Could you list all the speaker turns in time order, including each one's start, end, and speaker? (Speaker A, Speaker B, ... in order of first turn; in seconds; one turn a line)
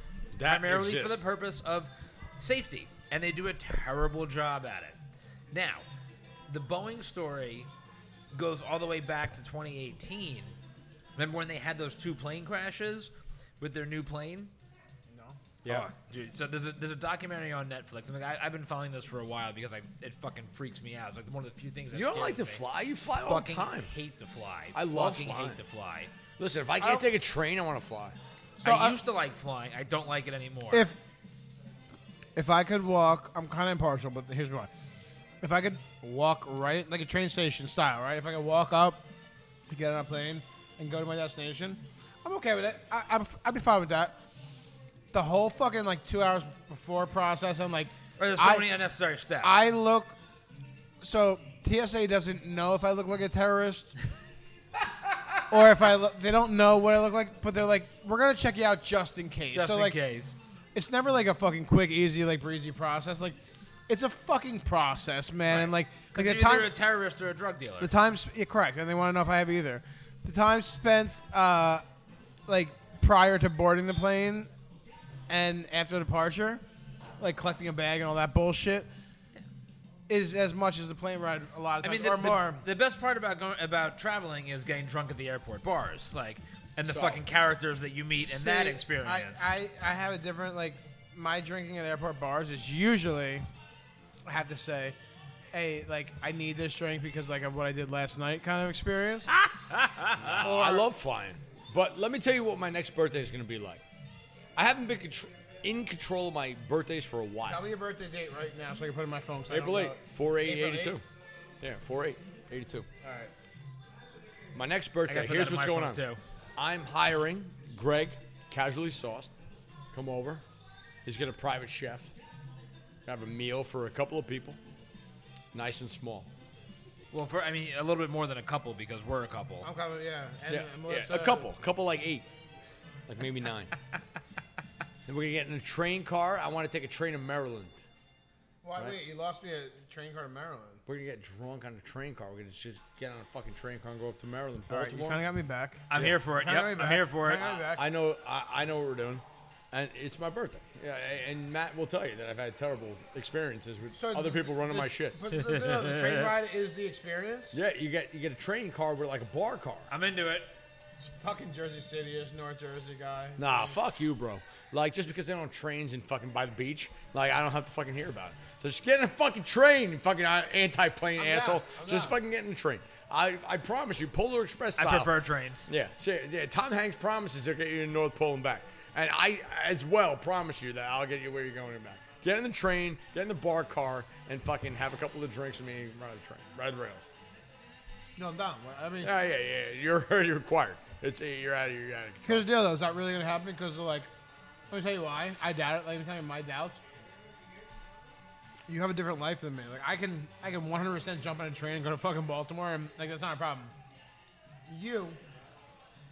Speaker A: 0.3-1.2
Speaker B: 0.5-5.0
Speaker B: 5.5-5.8
Speaker B: 6.5-7.7
Speaker B: 8.3-10.5
Speaker B: 11.2-14.5
Speaker C: 15.1-15.4
Speaker A: 15.6-15.9
Speaker B: 15.7-22.6
Speaker A: 21.9-23.9
Speaker B: 23.2-26.1
Speaker A: 24.7-25.6
Speaker A: 26.4-28.1
Speaker C: 26.8-27.1
Speaker C: 28.6-29.0
Speaker B: 28.6-30.9
Speaker C: 30.7-31.0
Speaker C: 32.4-34.7
Speaker C: 35.4-39.0
Speaker C: 39.7-44.2
Speaker C: 45.1-48.7
Speaker B: 48.2-49.6
Speaker C: 49.4-50.2
Speaker C: 51.0-53.9
Speaker B: 54.9-55.4
Speaker C: 55.5-60.0
Speaker B: 59.5-60.4
Speaker C: 60.7-66.7
Speaker B: 65.5-67.9
Speaker C: 67.8-71.8
Speaker C: 72.5-74.5
Speaker C: 75.3-76.6
Speaker C: 77.2-78.9
Speaker C: 80.1-82.7
Speaker B: 81.8-89.5
Speaker A: 86.8-87.2
Speaker C: 88.2-93.5
Speaker C: 94.3-95.0
Speaker C: 95.5-99.3
Speaker B: 99.3-100.4
Speaker A: 100.2-103.8
Speaker C: 100.3-100.9
Speaker A: 104.6-107.6
Speaker C: 107.5-111.0
Speaker A: 109.5-111.0
Speaker A: 111.6-112.9
Speaker C: 113.0-113.3
Speaker A: 114.5-116.0
Speaker B: 115.1-116.2
Speaker A: 116.6-119.3
Speaker A: 119.9-120.4
Speaker A: 121.0-122.1
Speaker A: 123.1-124.6
Speaker A: 125.5-126.3
Speaker B: 127.1-129.7
Speaker C: 129.6-131.5
Speaker A: 130.5-132.3
Speaker A: 133.1-133.7
Speaker A: 135.1-137.8
Speaker C: 138.6-140.8
Speaker A: 140.9-145.2
Speaker C: 144.7-147.9
Speaker B: 145.9-147.5
Speaker A: 147.5-155.2
Speaker C: 153.9-157.6
Speaker B: 155.8-156.0
Speaker A: 157.5-159.9
Speaker B: 159.9-160.5
Speaker C: 161.0-163.8
Speaker A: 163.4-175.1
Speaker C: 171.2-172.2
Speaker B: 174.8-175.7
Speaker A: 175.7-187.1
Speaker C: 188.2-189.1
Speaker A: 189.0-192.5
Speaker C: 192.2-194.1
Speaker C: 194.7-196.8
Speaker C: 198.7-203.7
Speaker C: 204.7-205.2